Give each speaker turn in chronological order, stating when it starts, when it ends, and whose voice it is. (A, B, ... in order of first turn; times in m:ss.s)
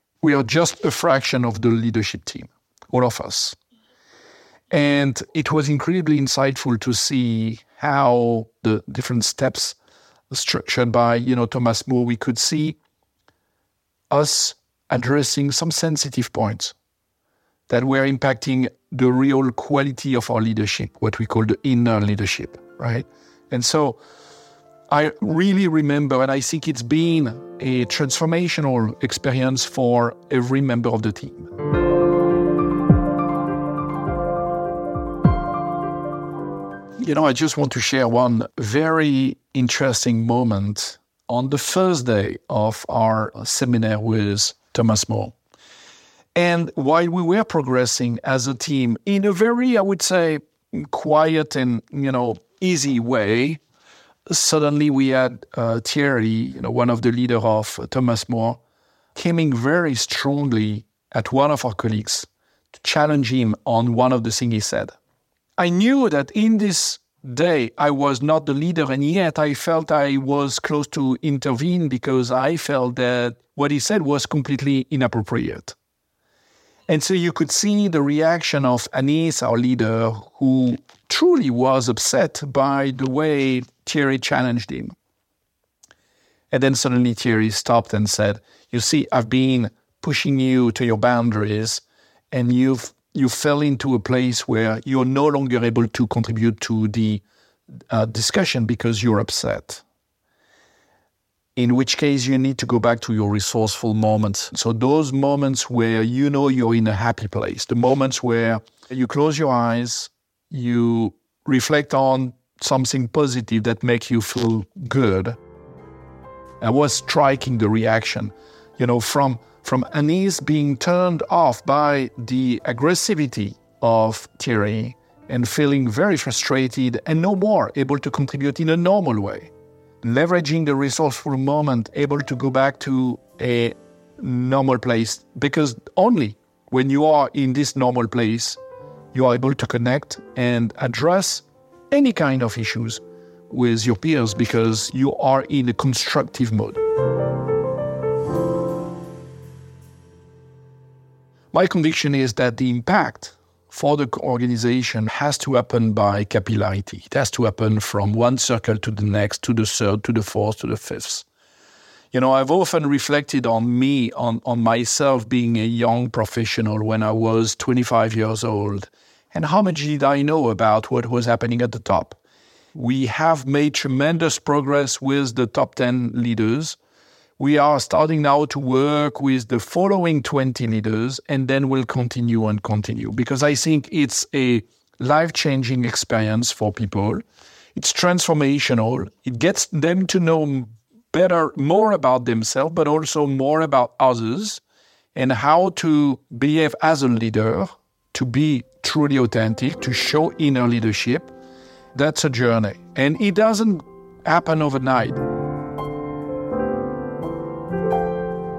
0:00.2-0:03.6 A
0:04.7-0:09.8 A
0:10.3-0:12.8 A
0:14.1-0:16.8 A
0:17.7-0:24.0 A
0:24.9-0:31.5 A
0:37.0-0:45.4 A
0:46.4-0:53.6 A
0:54.3-0:58.6 A
0:59.2-1:04.9 A
1:05.6-1:15.8 A
1:16.9-1:24.9 A
1:26.5-1:37.2 A
1:37.9-1:39.8 A
1:41.6-1:55.4 A
1:56.6-2:09.5 A
2:10.0-2:18.6 A
2:19.1-2:26.8 A
2:31.5-2:41.3 A
2:42.1-2:52.2 A
2:52.7-2:56.8 A
2:57.4-3:07.2 A
3:07.8-3:14.6 A
3:15.2-3:21.3 A
3:21.9-3:25.2 A